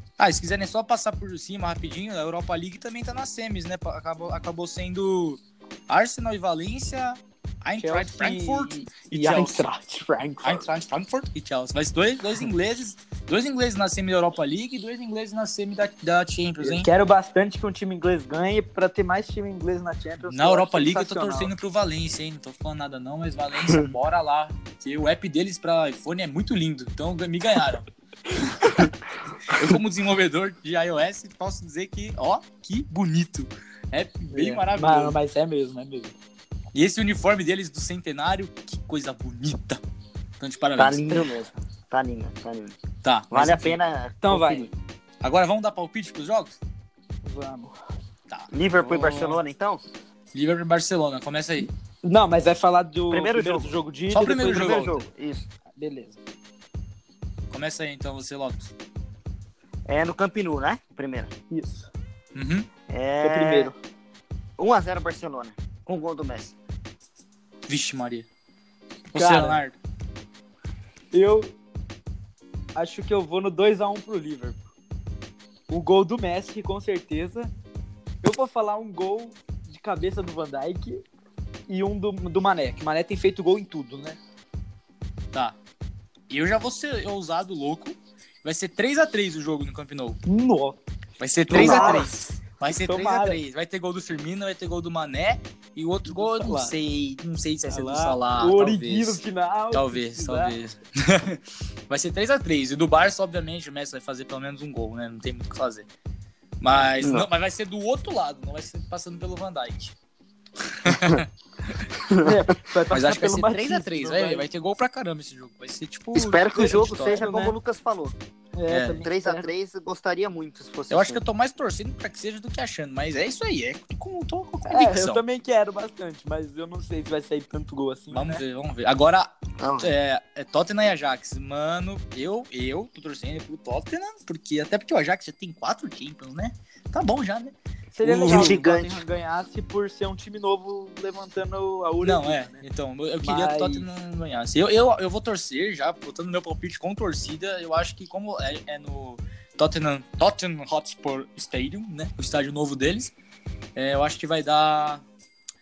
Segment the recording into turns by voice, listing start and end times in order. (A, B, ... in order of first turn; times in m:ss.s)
0:00.2-0:09.7 A
0:07.8-0:10.7 B
0:10.4-0:16.9 A
0:16.6-0:21.5 B
0:20.2-0:28.9 A
0:29.4-0:35.1 A
0:34.3-0:36.1 B
0:36.7-0:39.8 A
0:40.4-0:41.3 A
0:40.8-0:42.8 C
0:43.0-0:43.8 A
0:43.3-0:44.7 C
0:44.2-0:44.7 B
0:45.2-0:46.6 A
0:47.2-0:47.7 B
0:48.3-0:49.4 A
0:48.5-0:49.8 C
0:50.3-0:51.7 A
0:52.0-0:55.0 B
0:53.1-0:53.7 C
0:54.1-0:54.9 A
0:54.4-0:55.5 C
0:55.8-0:56.2 B
0:57.5-0:58.7 A
0:59.9-1:01.3 C
1:01.5-1:01.9 B
1:02.4-1:02.7 A
1:02.9-1:03.7 C
1:03.2-1:03.8 B
1:04.6-1:06.5 C
1:07.7-1:08.2 A
1:09.1-1:09.7 A
1:09.1-1:09.6 B
1:11.1-1:11.5 B
1:12.8-1:14.6 B
1:15.7-1:17.5 B
1:18.2-1:21.0 B
1:21.7-1:24.2 B
1:26.3-1:30.2 A
1:30.2-1:30.8 B
1:31.2-1:39.2 A
1:31.5-1:32.1 B
1:31.5-1:32.1 C
1:32.7-1:33.4 B
1:36.1-1:36.7 B
1:37.7-1:40.6 B
1:39.7-1:45.9 A
1:46.6-1:49.9 A
1:47.0-1:47.3 C
1:50.7-1:51.9 A
1:50.9-1:51.2 C
1:52.0-1:52.4 C
1:52.2-1:54.4 B
1:52.9-1:57.3 A
1:56.1-1:58.2 C
1:57.1-1:57.5 B
1:58.6-1:59.5 B
1:58.7-1:59.0 A
1:59.0-2:01.2 C
2:00.9-2:05.2 A
2:04.6-2:08.4 B
2:08.1-2:18.6 A
2:09.6-2:09.9 C
2:17.9-2:22.6 B
2:18.2-2:19.0 C
2:22.0-2:33.1 A
2:23.2-2:23.9 B
2:33.7-2:35.0 A